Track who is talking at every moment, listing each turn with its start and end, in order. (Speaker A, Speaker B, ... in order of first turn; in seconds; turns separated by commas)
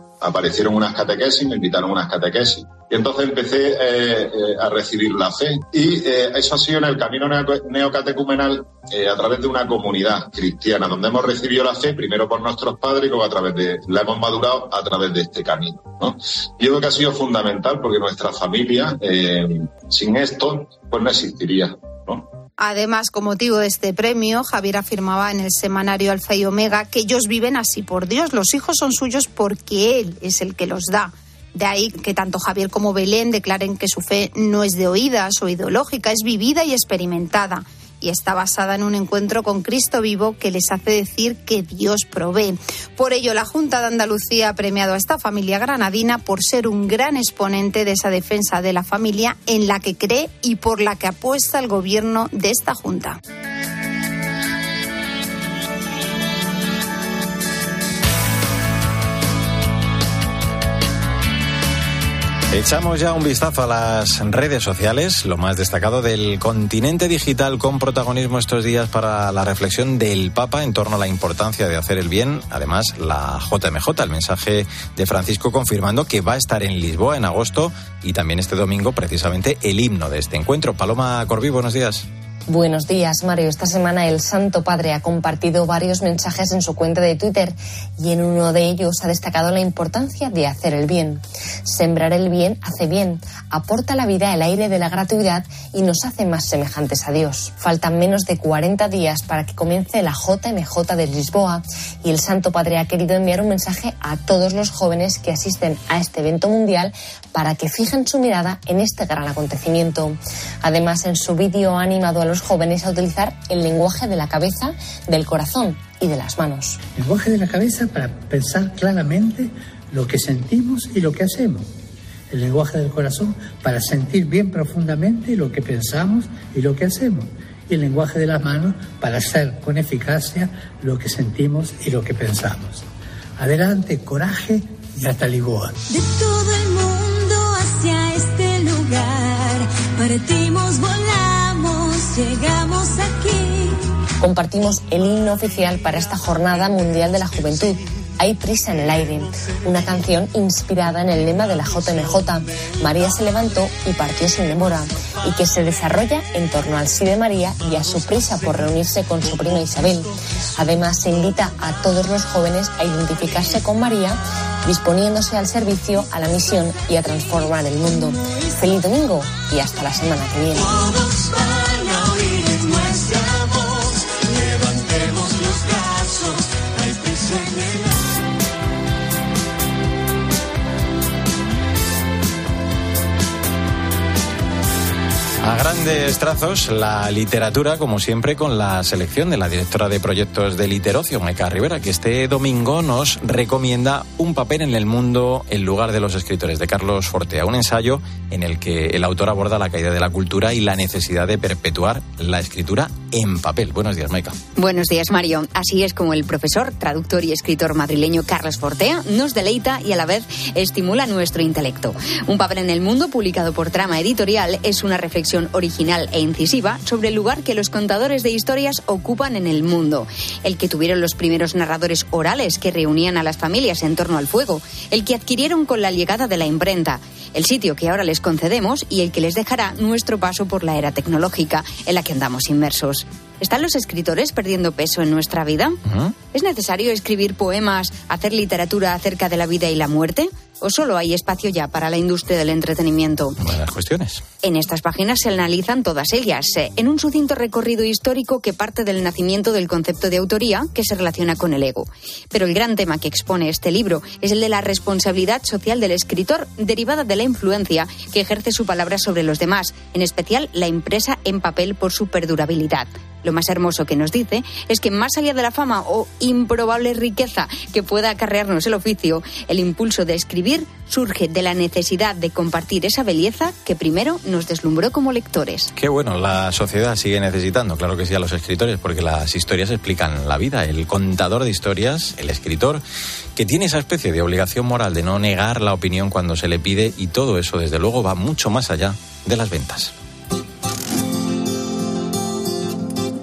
Speaker A: 0.2-22.2, Speaker B: 22.6-53.2, Speaker C: 62.5-82.1, Speaker D: 82.5-116.8, Speaker B: 117.0-121.6, Speaker E: 117.8-119.3, Speaker E: 120.1-121.4, Speaker B: 122.3-132.7, Speaker E: 122.4-125.2, Speaker E: 128.7-132.7, Speaker E: 133.4-135.7, Speaker B: 134.1-134.6, Speaker F: 135.9-143.4, Speaker D: 144.2-171.0, Speaker C: 185.4-204.3, Speaker G: 204.6-235.8, Speaker C: 235.9-236.2, Speaker G: 236.3-243.3, Speaker C: 243.4-244.2, Speaker G: 244.4-275.7, Speaker C: 275.8-282.8, Speaker C: 283.4-289.9